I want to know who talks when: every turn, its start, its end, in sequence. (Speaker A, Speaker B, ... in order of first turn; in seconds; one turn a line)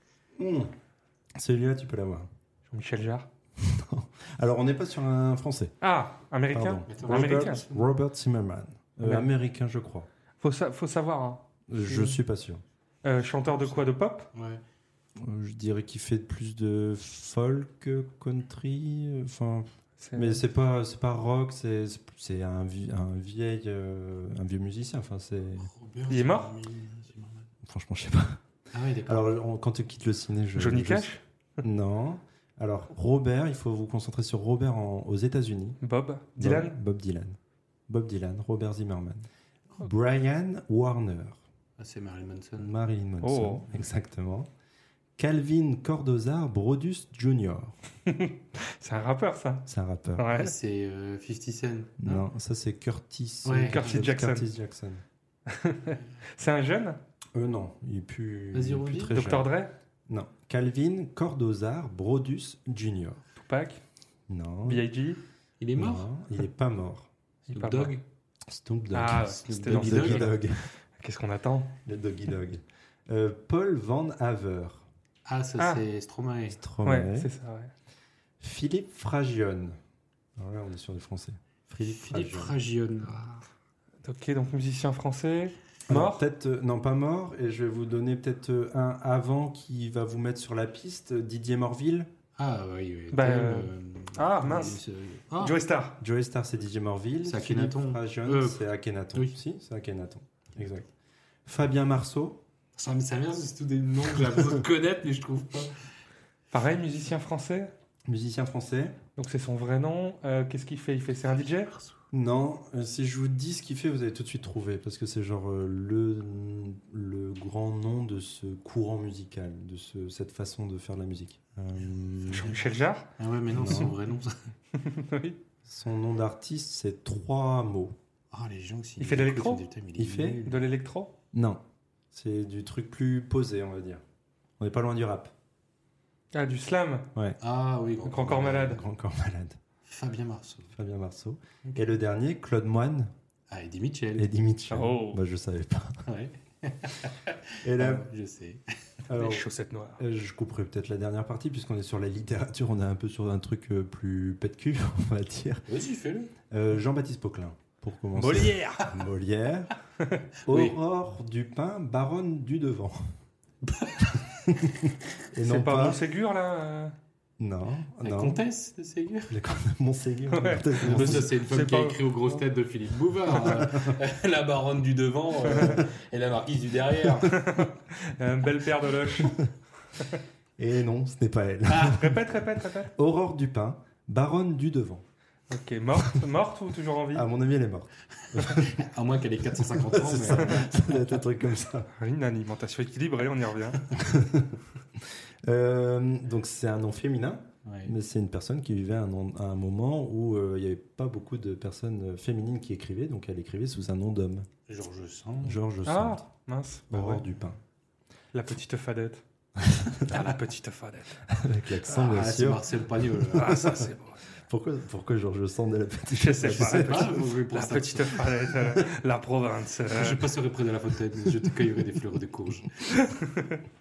Speaker A: 0.4-0.7
Speaker A: 1.4-2.3
Speaker B: 2.7-3.3
Speaker A: 3.6-5.7
Speaker B: 5.8-7.6
Speaker A: 6.5-10.1
Speaker C: 6.9-7.9
Speaker B: 9.0-9.3
Speaker B: 10.4-12.1
Speaker A: 11.7-12.6
Speaker B: 13.0-14.3
Speaker C: 14.3-14.6
Speaker A: 15.2-25.7
Speaker B: 20.0-20.4
Speaker C: 25.7-27.5
Speaker B: 26.1-26.6
Speaker A: 27.6-28.4
Speaker C: 28.7-29.3
Speaker A: 29.1-31.1
Speaker B: 30.6-31.2
Speaker A: 31.6-35.8
Speaker B: 35.8-36.8
Speaker A: 36.4-39.3
Speaker A: 39.8-41.4
Speaker C: 41.8-42.7
Speaker A: 42.6-44.5
Speaker B: 43.2-43.7
Speaker A: 45.2-47.8
Speaker B: 48.1-50.5
Speaker A: 49.7-50.3
Speaker C: 50.3-52.0
Speaker A: 52.0-55.0
Speaker C: 53.4-53.9
Speaker B: 53.7-54.4
Speaker B: 55.5-57.0
Speaker A: 57.3-59.5
Speaker C: 58.5-59.2
Speaker B: 59.1-59.7
Speaker A: 60.1-63.2
Speaker B: 63.4-63.8
Speaker A: 64.3-64.8
Speaker B: 64.6-65.2
Speaker C: 65.6-66.1
Speaker A: 65.8-67.1
Speaker B: 67.5-68.0
Speaker C: 67.5-68.0
Speaker A: 68.5-70.6
Speaker B: 68.9-71.8
Speaker C: 69.4-70.3
Speaker A: 71.8-74.8
Speaker C: 75.3-76.6
Speaker B: 75.6-75.8
Speaker A: 76.5-77.3
Speaker B: 76.8-77.7
Speaker A: 78.4-79.8
Speaker A: 80.4-82.5
Speaker C: 81.9-83.4
Speaker B: 84.0-86.2
Speaker A: 85.9-92.1
Speaker C: 92.4-95.6
Speaker B: 93.1-94.8
Speaker B: 95.4-96.0
Speaker A: 96.0-100.9
Speaker C: 97.2-99.3
Speaker A: 101.5-102.4
Speaker C: 102.8-105.7
Speaker B: 106.5-107.7
Speaker A: 108.1-109.0
Speaker B: 109.2-111.7
Speaker A: 112.1-122.6
Speaker B: 122.3-123.1
Speaker C: 123.2-124.3
Speaker A: 123.5-124.0
Speaker B: 124.7-125.4
Speaker A: 125.6-128.0
Speaker C: 128.3-130.7
Speaker B: 129.0-129.6
Speaker A: 130.0-130.4
Speaker B: 130.4-131.1
Speaker A: 131.3-131.6
Speaker A: 132.1-134.0
Speaker A: 134.6-135.3
Speaker B: 136.3-137.1
Speaker C: 137.4-138.8
Speaker B: 138.0-138.8
Speaker A: 138.2-139.6
Speaker C: 139.8-140.7
Speaker A: 140.7-143.1
Speaker C: 143.5-144.3
Speaker A: 144.2-146.0
Speaker B: 144.7-145.2
Speaker C: 146.1-148.6
Speaker A: 147.6-148.1
Speaker A: 149.1-149.4
Speaker B: 149.1-150.0
Speaker A: 150.0-155.7
Speaker C: 155.7-156.3
Speaker A: 156.5-159.7
Speaker B: 158.1-158.9
Speaker A: 160.4-163.1
Speaker C: 160.5-160.7
Speaker C: 163.6-164.2
Speaker A: 164.4-166.0
Speaker B: 165.4-166.9
Speaker A: 167.4-168.4
Speaker C: 168.0-169.4
Speaker A: 169.3-171.3
Speaker B: 170.3-172.4
Speaker C: 170.8-177.6
Speaker A: 173.4-174.0
Speaker B: 175.4-175.8
Speaker B: 177.3-179.4
Speaker A: 180.6-182.3
Speaker B: 181.7-182.9
Speaker A: 182.8-185.0
Speaker B: 185.5-187.3
Speaker A: 187.1-188.8
Speaker C: 188.3-191.2
Speaker A: 189.7-191.9
Speaker B: 192.0-193.9
Speaker A: 193.9-204.5
Speaker C: 197.6-197.9
Speaker C: 204.7-205.6
Speaker A: 205.4-206.2
Speaker B: 205.8-207.2
Speaker A: 206.9-207.6
Speaker B: 208.3-209.2
Speaker A: 209.6-210.0
Speaker B: 210.0-211.2
Speaker A: 211.3-213.9
Speaker C: 211.8-213.8
Speaker B: 213.3-214.2
Speaker A: 214.4-217.2
Speaker B: 216.1-220.3
Speaker C: 216.5-218.5
Speaker C: 219.9-223.0
Speaker B: 222.9-223.6